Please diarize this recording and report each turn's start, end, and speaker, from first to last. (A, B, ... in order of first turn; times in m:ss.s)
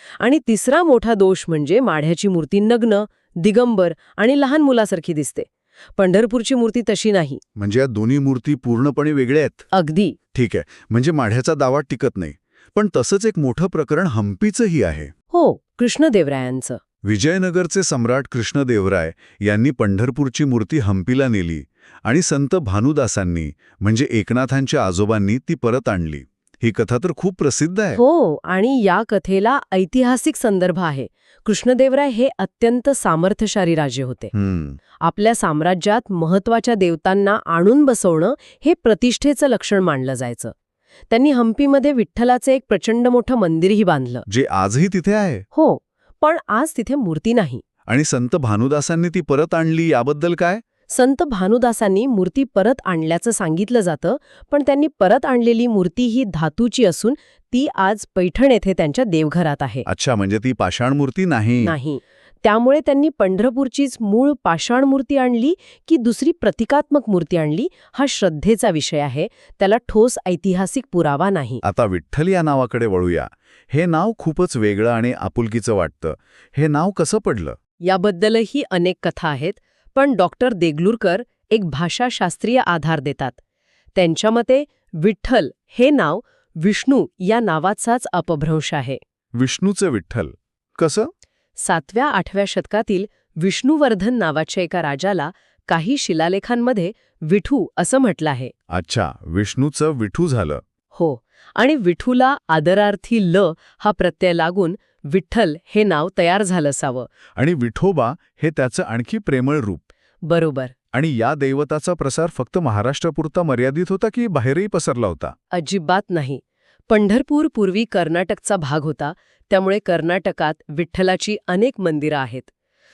0:00.2-0:07.4 A
0:07.6-0:09.6 B
0:09.7-0:10.2 A
0:10.3-0:15.1 B
0:15.3-0:16.8 A
0:17.0-0:28.0 B
0:27.9-0:34.3 A
0:34.3-0:34.8 B
0:35.0-0:40.5 A
0:41.1-0:44.2 A
0:44.3-0:45.4 B
0:45.5-0:47.6 A
0:47.9-0:50.6 B
0:50.9-0:59.8 A
0:59.8-1:01.7 B
1:01.6-1:11.6 A
1:11.6-1:17.6 B
1:17.8-1:23.4 A
1:23.9-1:29.0 A
1:29.3-1:31.1 B
1:31.6-1:38.5 A
1:38.7-1:40.6 B
1:40.9-1:47.1 A
1:47.4-1:49.8 B
1:50.2-1:50.7 A
1:50.9-1:55.3 B
1:55.5-2:02.5 A